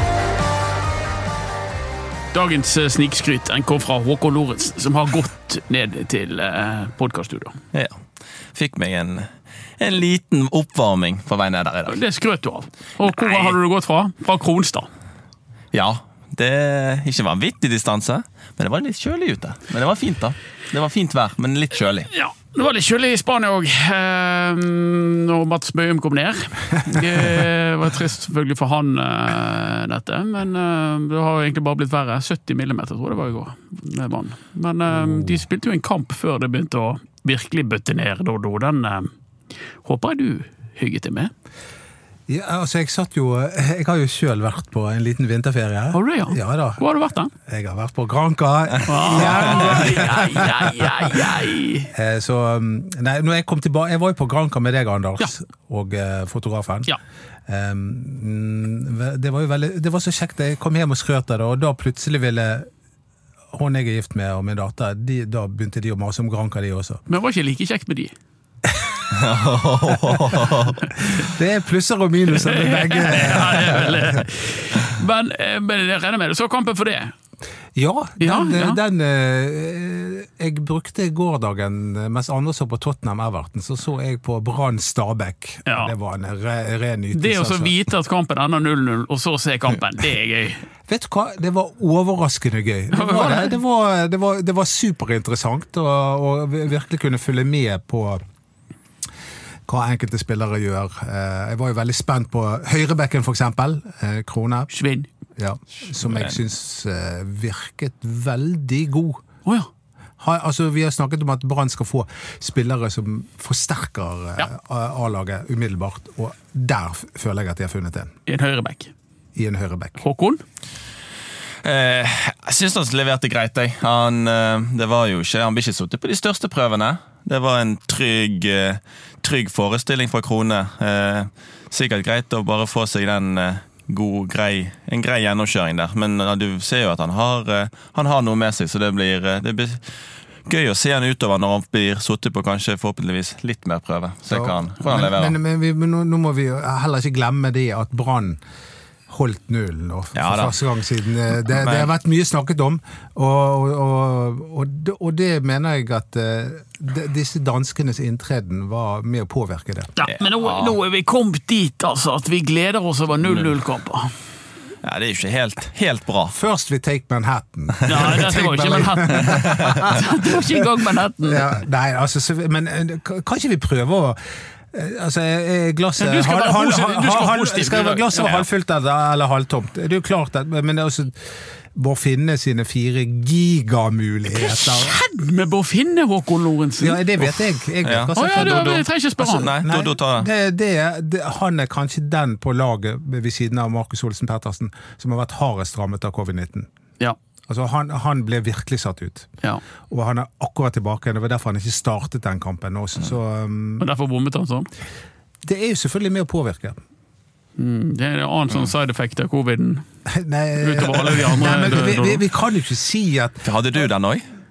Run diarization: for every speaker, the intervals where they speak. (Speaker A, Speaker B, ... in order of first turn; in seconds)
Speaker A: 2.3-7.6, 11.9-14.9, 22.1-39.1, 39.8-41.3, 45.9-47.3, 48.8-51.9, 67.1-68.1, 72.3-77.1, 78.2-78.8, 85.7-85.9, 87.1-90.6, 92.9-93.5, 104.7-105.1, 118.3-118.9, 120.0-120.4, 160.0-164.1, 167.8-171.5, 176.0-178.3, 184.3-187.4, 188.2-189.5, 203.8-204.7, 207.6-209.8, 210.6-212.2
Speaker B: 7.7-8.0, 8.5-12.0, 13.0-13.6, 15.7-22.1, 49.1-49.9, 69.1-70.9, 106.0-106.4, 121.6-139.8, 140.5-145.3, 150.1-150.5, 151.4-151.9, 160.0-160.8, 163.2-163.5, 164.8-166.3, 167.8-168.2, 169.1-170.0, 178.2-178.5, 187.8-190.3, 213.4-214.2
Speaker C: 34.9-35.4, 42.3-46.8, 47.4-51.2, 51.9-56.9, 57.5-62.7, 63.5-67.0, 68.7-69.0, 70.1-70.3, 71.0-74.2, 77.8-87.7, 90.9-98.2, 99.7-104.7, 105.4-109.2, 110.2-118.1, 119.3-120.0, 144.3-148.4, 149.1-159.9, 166.3-170.5, 171.2-174.2, 174.7-185.0, 186.8-188.8, 189.4-196.7, 197.5-199.3, 199.9-203.8, 205.4-206.8, 210.1-213.4